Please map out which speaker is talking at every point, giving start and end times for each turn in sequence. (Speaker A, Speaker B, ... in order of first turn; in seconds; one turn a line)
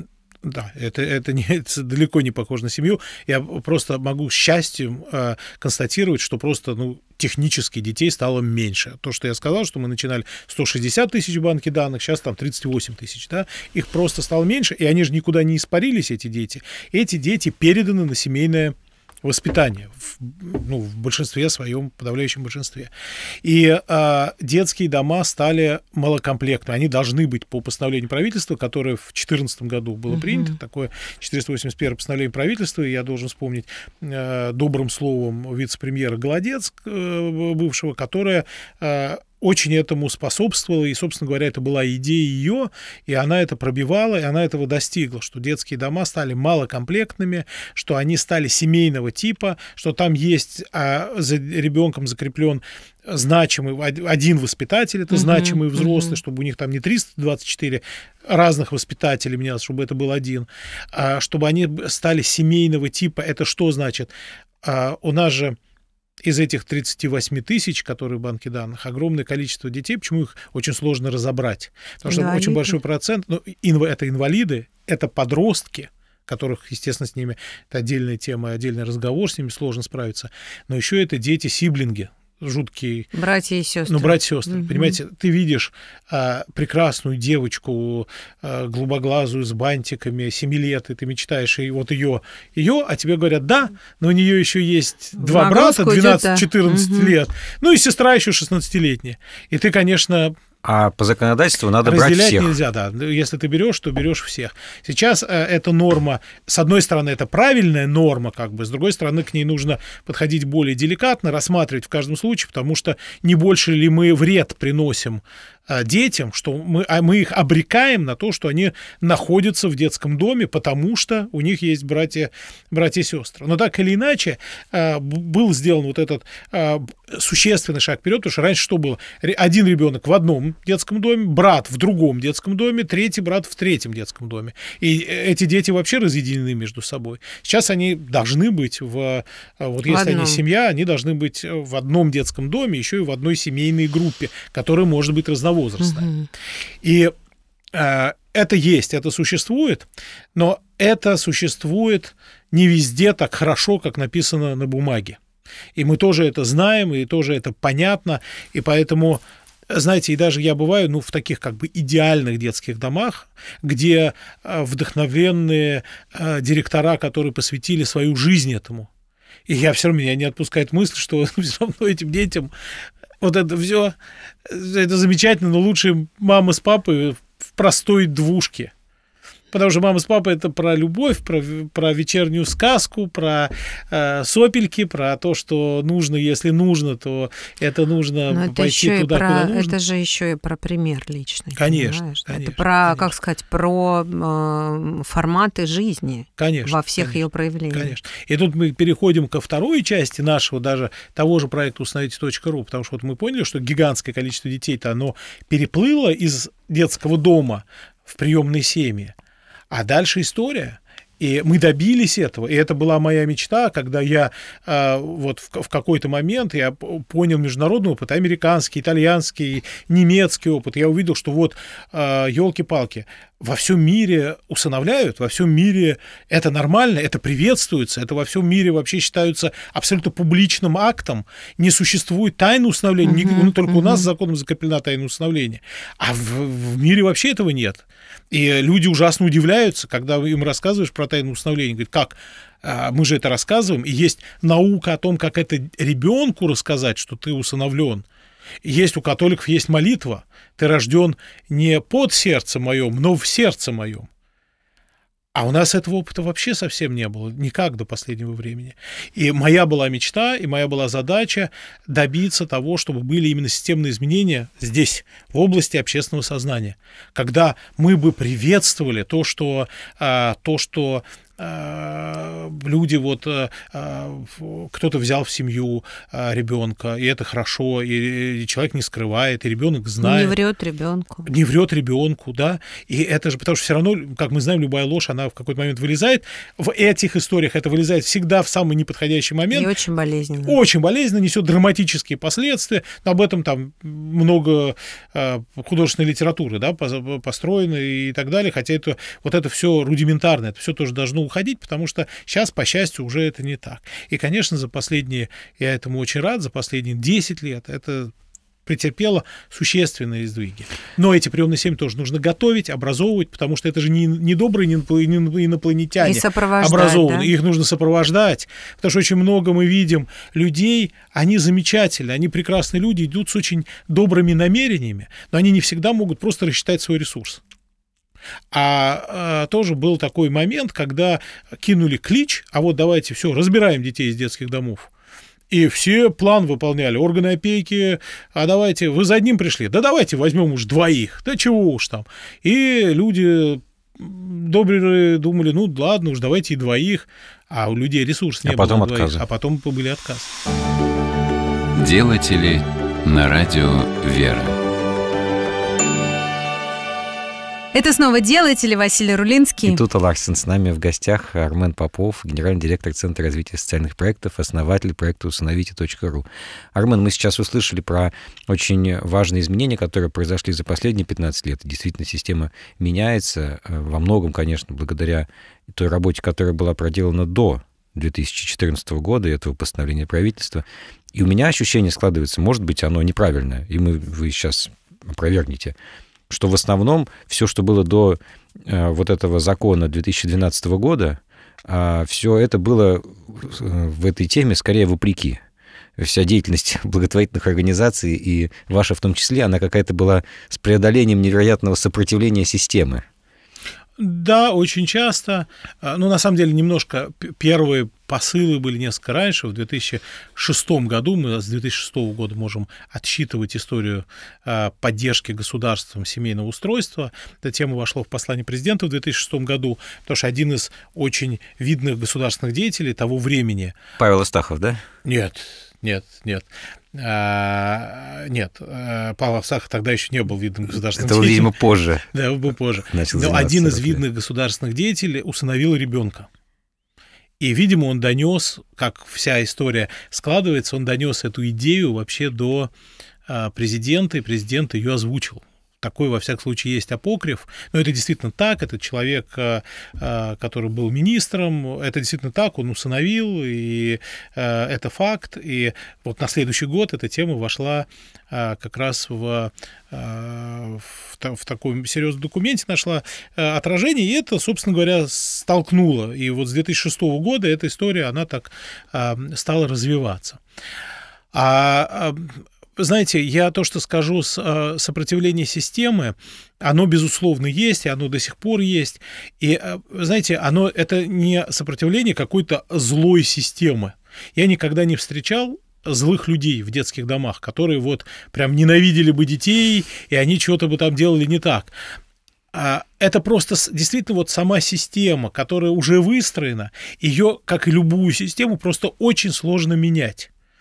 Speaker A: 0.4-22.9
Speaker A: 23.4-64.1
Speaker B: 30.1-30.5
Speaker B: 55.1-56.2
Speaker A: 64.6-65.6
Speaker A: 66.2-83.1
Speaker B: 72.1-72.8
Speaker B: 83.1-85.0
Speaker A: 83.9-100.3
Speaker B: 95.2-97.2
Speaker C: 100.6-102.5
Speaker A: 101.8-146.1
Speaker B: 139.9-140.4
Speaker B: 145.8-146.3
Speaker A: 146.8-147.1
Speaker A: 147.7-155.2
Speaker A: 155.8-168.9
Speaker A: 169.5-172.5
Speaker A: 173.2-178.7
Speaker A: 179.5-189.8
Speaker B: 188.3-197.9
Speaker A: 191.6-193.1
Speaker A: 196.4-209.2
Speaker A: 209.7-248.1
Speaker B: 233.0-234.1
Speaker A: 248.6-254.1
Speaker A: 255.3-280.4
Speaker B: 280.0-281.3
Speaker A: 281.3-289.7
Speaker B: 289.5-290.6
Speaker A: 290.4-308.1
Speaker A: 308.7-327.4
Speaker B: 316.0-317.3
Speaker A: 328.5-334.9
Speaker A: 335.5-350.3
Speaker C: 348.4-349.2
Speaker C: 351.8-354.6
Speaker B: 357.7-359.8
Speaker C: 359.6-385.8
Speaker C: 386.3-395.4
Speaker C: 396.0-403.1
Speaker A: 404.0-423.8
Speaker C: 424.0-424.8
Speaker A: 425.1-431.5
Speaker C: 431.0-432.1
Speaker A: 432.1-436.3
Speaker C: 432.9-434.0
Speaker A: 437.4-442.7
Speaker A: 443.3-470.4
Speaker A: 471.3-491.7
Speaker A: 492.5-500.3